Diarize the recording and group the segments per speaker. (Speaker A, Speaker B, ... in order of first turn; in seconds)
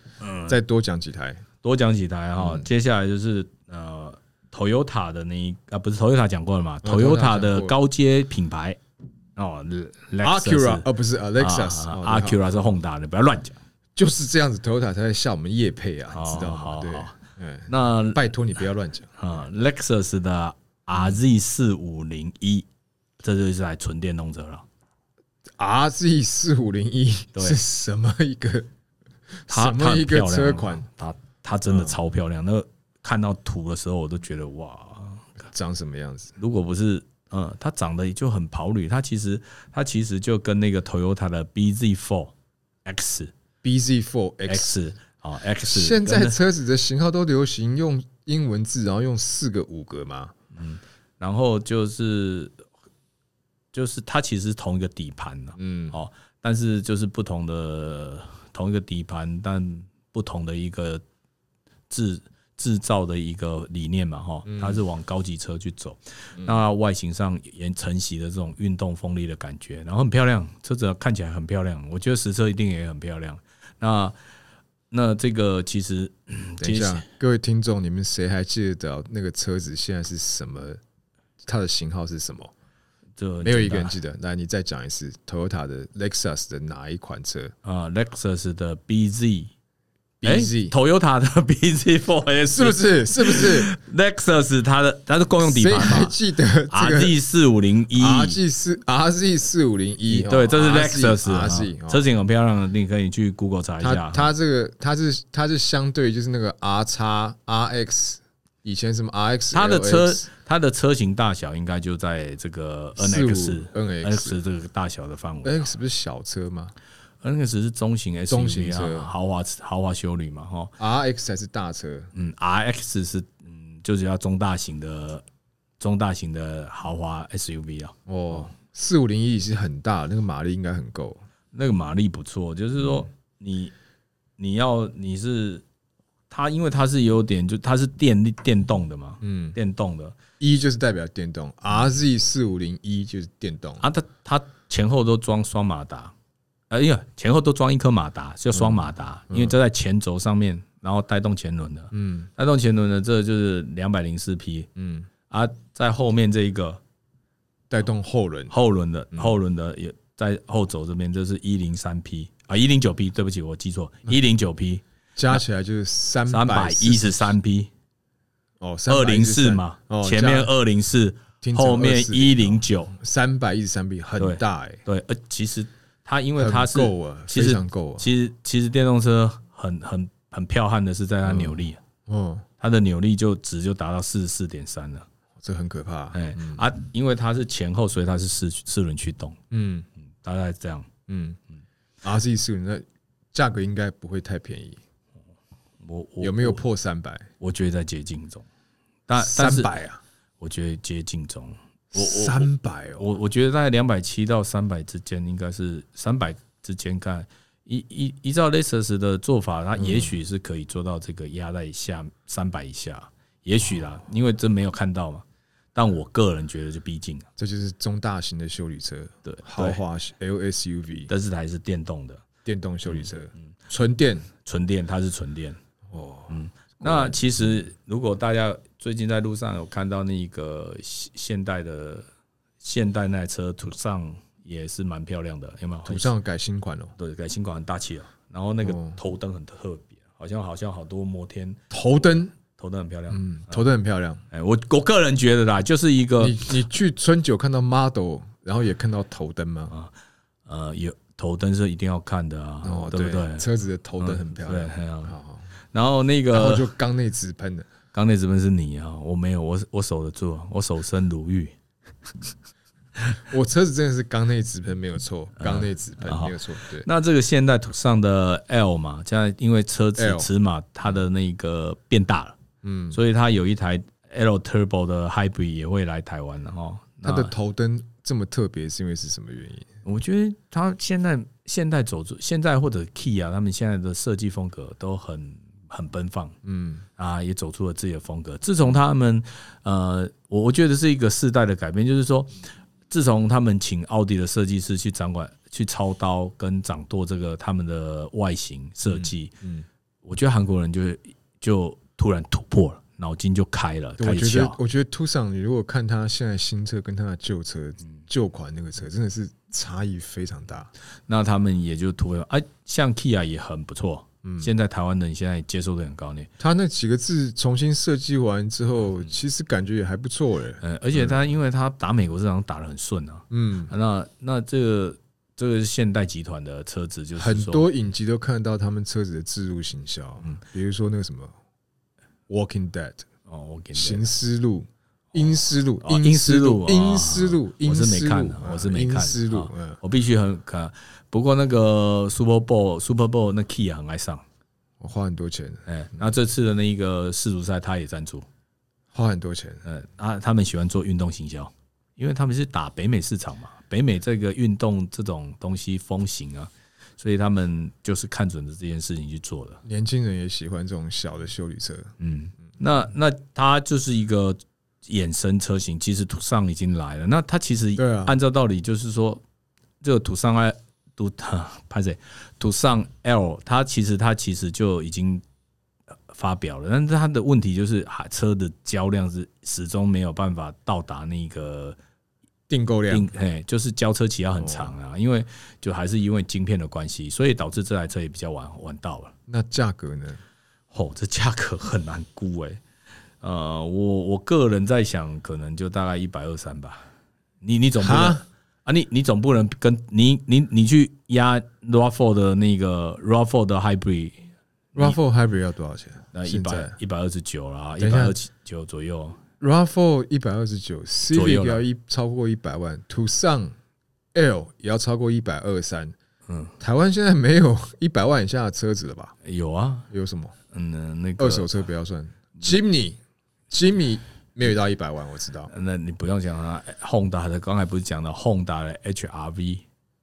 Speaker A: 0.2-0.6, 1.6-8.8, 9.3-10.8, 11.4-13.6, 16.1-17.1, 17.7-18.2, 19.2-22.6, 23.2-24.6, 29.5-35.2, 36.4-42.3, 42.9-43.3, 44.5-46.4, 50.5-52.6, 53.7-61.0, 61.9-74.1, 74.9-77.0, 83.2-83.9, 87.6-89.5, 90.2-96.1, 96.7-98.4, 100.1-104.3, 109.5-115.6, 117.2-120.7, 122.1-125.2, 125.8-128.5, 131.5-133.7, 134.4-135.6, 136.3-140.1, 143.8-146.1, 146.7-154.7, 155.3-156.8, 158.5-165.4, 166.3-167.7, 168.9-172.9, 174.2-181.8, 182.6-185.1, 186.1-189.4, 190.2-190.9, 195.8-196.6, 197.4-198.4, 199.1-199.7, 200.4-215.2, 215.7-217.3, 219.2-219.8, 221.1-222.2, 224.4-225.6, 226.3-232.0, 232.6-236.1, 237.0-241.6, 242.4-243.6, 244.3-246.4, 250.5-253.4, 254.0-255.1, 255.7-256.7, 257.9-261.5, 265.4-272.4, 272.9-277.3, 279.8-286.3, 287.0-299.3, 300.0-304.6, 311.1-316.3, 320.6-327.7, 333.3-334.1, 335.1-344.2, 345.7-348.3, 349.6-359.6, 362.0-369.2, 369.8-375.2, 376.1-381.8, 382.9-389.1, 390.7-392.6, 393.2-396.9, 397.4-404.2, 406.1-409.2, 411.1-411.6, 416.3-416.5, 419.2-419.9, 420.5-421.5, 425.5-429.6
Speaker B: 0.5-1.4, 2.4-2.6, 6.8-7.8, 10.2-12.8, 13.9-19.1, 25.6-28.7, 29.4-30.9, 31.7-32.0, 35.4-36.4, 43.6-44.8, 45.6-50.3, 55.6-56.0, 64.5-64.8, 76.6-80.8, 81.4-82.5, 83.4-87.5, 90.2-90.7, 92.5-93.7, 95.4-97.2, 97.9-102.0, 103.8-110.3, 113.0-114.4, 115.4-116.7, 118.3-119.1, 120.8-122.1, 128.1-131.2, 139.2-139.6, 140.4-143.8, 148.5-149.5, 151.9-152.3, 154.8-155.1, 157.7-158.5, 165.2-167.3, 168.6-170.5, 171.4-174.8, 176.3-178.1, 181.2-182.4, 185.4-186.6, 189.5-189.9, 191.1-191.4, 192.0-194.8, 196.2-197.3, 199.2-200.0, 201.9-203.1, 209.8-210.1, 217.4-221.1, 222.4-224.3, 225.9-227.2, 235.8-236.9, 238.6-239.0, 241.7-242.3, 243.1-244.2, 246.2-249.7, 252.6-255.5, 256.3-257.7, 263.3-266.9, 270.0-270.3, 272.6-273.0, 277.0-279.7, 286.4-286.9, 298.9-299.6, 304.0-310.7, 314.2-314.5, 316.4-321.2, 323.3-323.7, 327.1-331.3, 332.3-333.0, 333.7-339.8, 344.8-346.1, 348.9-349.6, 359.6-361.9, 367.8-368.1, 382.5-383.1, 384.4-384.7, 389.3-390.2, 397.8-398.2, 404.7-406.8, 407.8-408.1, 409.4-413.5, 414.1-415.9, 416.6-419.1, 419.9-420.3, 421.2-423.0, 423.5-425.5